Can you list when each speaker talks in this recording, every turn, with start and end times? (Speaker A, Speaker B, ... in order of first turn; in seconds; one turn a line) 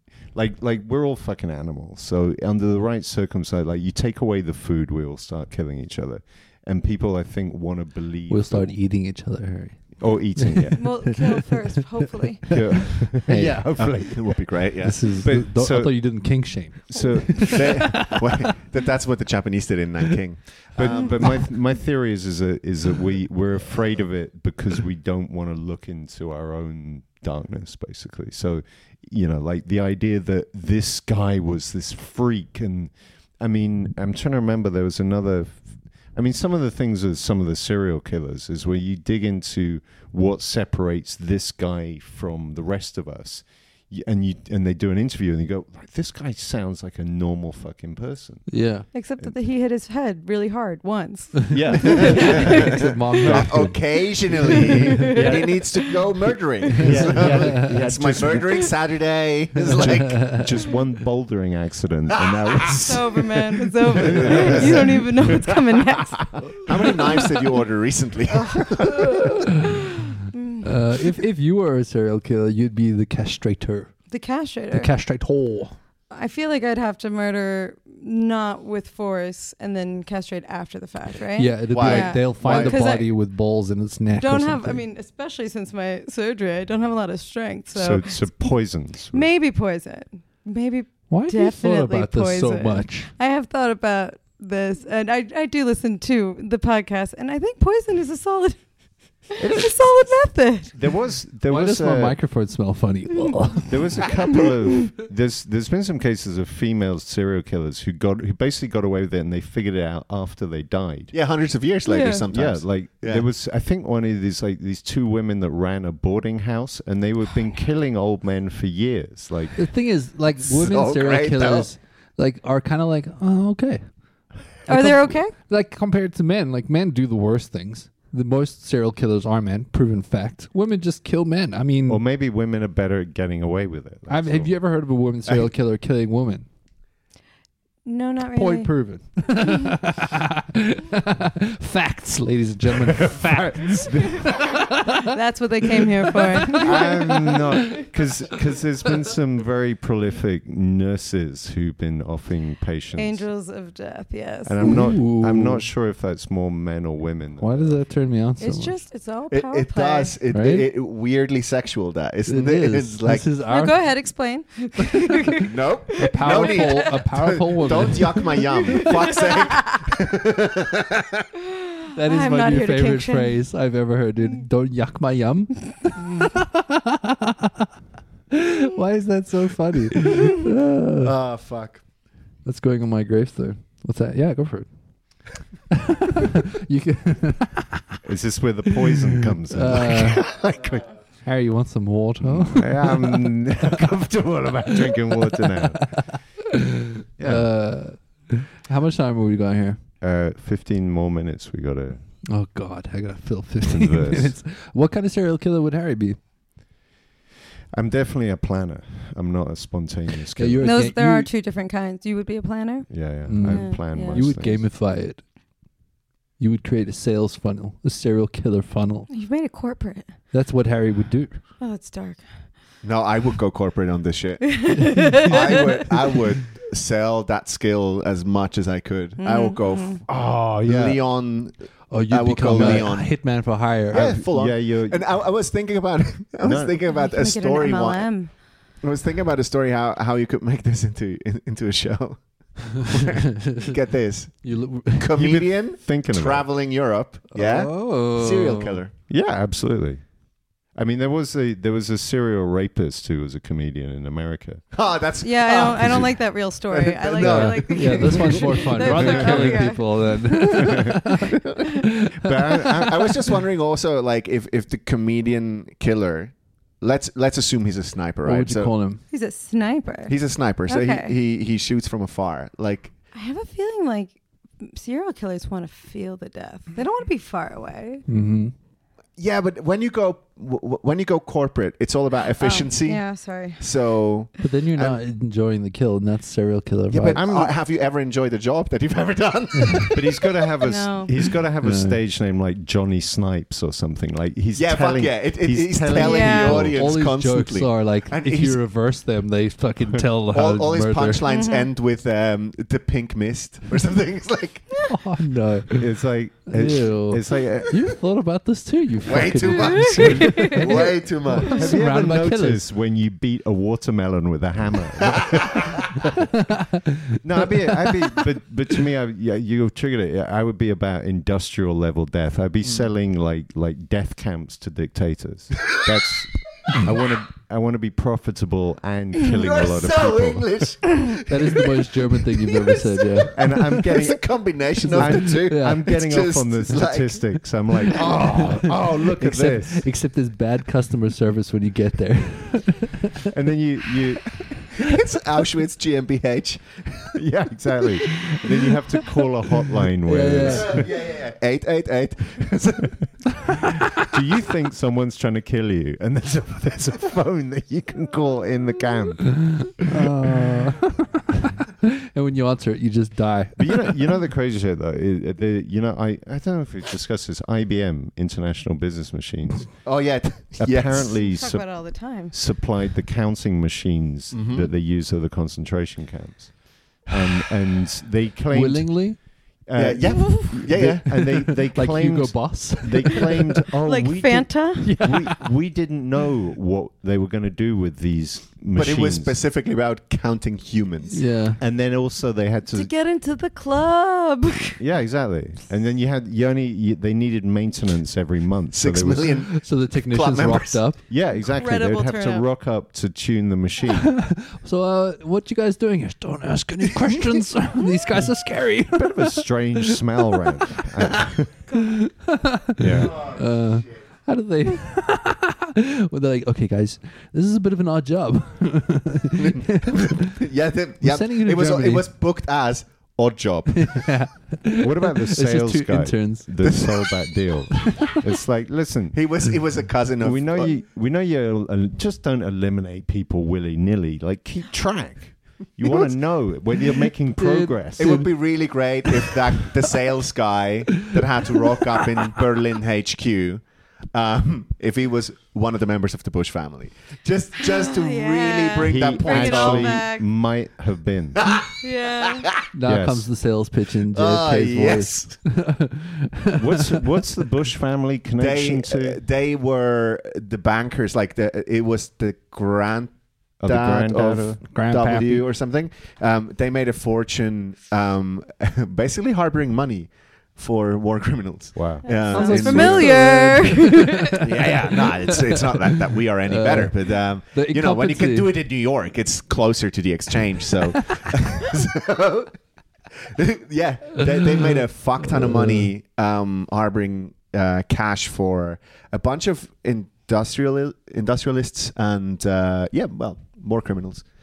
Speaker A: 0.3-8.8
Speaker B: 8.3-11.8
Speaker A: 10.0-11.0
Speaker C: 10.8-12.7
Speaker B: 12.4-13.9
Speaker A: 12.5-14.4
Speaker D: 13.7-15.3
Speaker B: 14.8-18.4
Speaker A: 15.2-16.3
Speaker A: 16.9-17.9
Speaker D: 17.4-21.4
Speaker A: 20.8-48.5
Speaker B: 48.5-48.9
Speaker C: 48.9-52.8
Speaker B: 51.5-55.1
Speaker A: 51.5-53.6
Speaker D: 52.0-60.4
Speaker C: 54.5-56.1
Speaker A: 55.1-55.5
Speaker A: 56.8-58.7
Speaker B: 56.8-57.8
Speaker B: 59.6-60.5
Speaker A: 59.7-66.0
Speaker D: 62.1-63.0
Speaker C: 62.8-66.9
Speaker D: 63.9-65.0
Speaker D: 66.5-69.4
Speaker C: 68.6-69.4
Speaker C: 70.1-70.7
Speaker B: 70.6-73.9
Speaker C: 74.1-74.9
Speaker B: 74.7-75.8
Speaker C: 76.1-83.1
Speaker B: 81.3-84.8
Speaker D: 81.7-82.8
Speaker C: 84.2-88.5
Speaker A: 87.7-89.3
Speaker C: 89.1-98.7
Speaker B: 91.1-93.1
Speaker C: 99.2-100.7
Speaker A: 99.4-100.1
Speaker A: 100.7-102.2
Speaker B: 101.5-104.1
Speaker A: 103.7-111.1
Speaker D: 111.1-113.3
Speaker C: 111.8-112.2
Speaker A: 112.3-119.7
Speaker B: 119.6-123.8
Speaker D: 120.4-121.7
Speaker C: 124.7-125.3
Speaker B: 124.7-132.0
Speaker A: 131.9-134.5
Speaker B: 134.1-136.4
Speaker C: 137.8-138.7
Speaker B: 138.3-145.0
Speaker A: 142.9-144.4
Speaker C: 145.0-147.4
Speaker B: 146.1-147.4
Speaker A: 146.6-153.2
Speaker C: 152.9-154.8
Speaker A: 154.4-157.8
Speaker B: 154.6-155.6
Speaker B: 157.4-158.8
Speaker C: 158.4-160.2
Speaker D: 159.3-163.2
Speaker B: 160.3-160.7
Speaker B: 162.3-163.9
Speaker C: 163.4-166.9
Speaker D: 165.4-171.2
Speaker B: 165.9-168.9
Speaker C: 168.3-169.8
Speaker C: 171.5-173.4
Speaker B: 171.9-177.7
Speaker B: 178.3-181.1
Speaker D: 181.0-181.8
Speaker B: 182.4-184.7
Speaker B: 185.7-188.0
Speaker A: 188.0-190.9
Speaker B: 189.5-190.3
Speaker B: 191.2-193.4
Speaker A: 192.2-196.2
Speaker B: 195.4-196.6
Speaker A: 197.2-197.5
Speaker B: 197.2-199.8
Speaker A: 200.0-202.0
Speaker B: 202.3-206.2
Speaker A: 203.7-204.4
Speaker A: 207.7-210.7
Speaker B: 210.3-211.3
Speaker C: 210.6-214.2
Speaker A: 212.9-214.7
Speaker B: 213.3-215.2
Speaker B: 216.4-219.1
Speaker C: 219.1-220.1
Speaker B: 220.3-221.4
Speaker C: 221.6-222.3
Speaker D: 222.8-230.1
Speaker C: 224.5-225.7
Speaker B: 225.0-225.3
Speaker C: 229.2-230.0
Speaker A: 230.1-231.0
Speaker D: 230.6-231.5
Speaker B: 231.9-234.2
Speaker D: 232.1-233.4
Speaker A: 232.6-232.9
Speaker D: 233.9-238.1
Speaker A: 233.9-235.1
Speaker A: 236.4-236.7
Speaker C: 236.9-238.3
Speaker D: 238.8-248.9
Speaker B: 243.4-243.7
Speaker B: 244.4-245.1
Speaker A: 245.1-246.5
Speaker B: 247.3-248.8
Speaker A: 249.1-250.0
Speaker A: 250.7-254.6
Speaker D: 254.7-259.0
Speaker C: 255.2-260.3
Speaker A: 255.8-256.0
Speaker B: 257.2-262.6
Speaker A: 259.0-259.6
Speaker A: 260.6-261.0
Speaker A: 262.2-263.1
Speaker D: 262.7-268.7
Speaker B: 268.2-269.0
Speaker C: 269.1-271.1
Speaker D: 270.1-272.9
Speaker C: 273.1-278.0
Speaker B: 278.1-278.5
Speaker D: 279.2-283.0
Speaker C: 282.4-283.6
Speaker D: 283.6-285.0
Speaker B: 284.4-287.2
Speaker D: 286.9-290.3
Speaker A: 287.1-287.5
Speaker A: 289.9-296.8
Speaker C: 290.6-291.1
Speaker B: 291.6-292.0
Speaker D: 294.5-298.6
Speaker C: 295.9-296.7
Speaker B: 296.7-301.2
Speaker D: 300.3-304.9
Speaker C: 301.2-301.7
Speaker B: 304.8-305.9
Speaker A: 305.8-307.8
Speaker B: 306.5-312.6
Speaker D: 309.0-311.6
Speaker C: 309.5-310.8
Speaker A: 311.4-316.3
Speaker D: 315.1-315.8
Speaker B: 316.1-317.9
Speaker A: 317.2-330.8
Speaker D: 329.3-337.3
Speaker B: 331.3-333.3
Speaker A: 333.3-339.9
Speaker B: 334.8-335.9
Speaker B: 338.0-343.3
Speaker A: 343.2-344.5
Speaker D: 344.8-347.2
Speaker A: 347.1-350.9
Speaker B: 350.0-350.9
Speaker D: 350.4-353.8
Speaker A: 353.9-359.8
Speaker B: 359.8-363.9
Speaker A: 363.6-369.9
Speaker D: 369.8-371.2
Speaker A: 370.6-389.4
Speaker C: 371.2-372.3
Speaker D: 374.3-374.7
Speaker B: 378.5-379.2
Speaker D: 379.7-381.3
Speaker C: 380.1-380.4
Speaker B: 381.0-383.5
Speaker C: 383.8-385.0
Speaker B: 384.8-385.4
Speaker D: 388.8-391.3
Speaker B: 391.1-391.6
Speaker A: 391.6-392.9
Speaker C: 392.7-394.8
Speaker A: 394.8-399.4
Speaker D: 398.7-400.9
Speaker B: 399.5-401.0
Speaker A: 401.1-404.2
Speaker C: 401.3-402.5
Speaker B: 404.1-410.1
Speaker A: 408.9-411.6
Speaker B: 411.8-420.4
Speaker A: 412.8-413.4
Speaker D: 419.4-424.2
Speaker B: 421.0-422.1
Speaker B: 423.8-426.5
Speaker A: 424.8-429.6
Speaker D: 426.6-427.1
Speaker D: 429.1-430.8
Speaker A: 430.2-438.3
Speaker B: 437.4-439.2
Speaker D: 437.9-450.0
Speaker C: 447.6-450.3
Speaker A: 448.8-451.5
Speaker D: 451.4-451.7
Speaker C: 451.8-452.5
Speaker B: 452.7-457.0
Speaker A: 452.8-453.3
Speaker D: 454.1-455.4
Speaker A: 456.6-459.2
Speaker D: 458.4-473.2
Speaker A: 463.6-464.6
Speaker B: 464.6-465.5
Speaker A: 471.7-472.9
Speaker C: 472.0-474.4
Speaker B: 472.3-475.8
Speaker D: 474.4-482.6
Speaker B: 476.4-478.5
Speaker D: 483.2-494.3
Speaker B: 485.3-485.9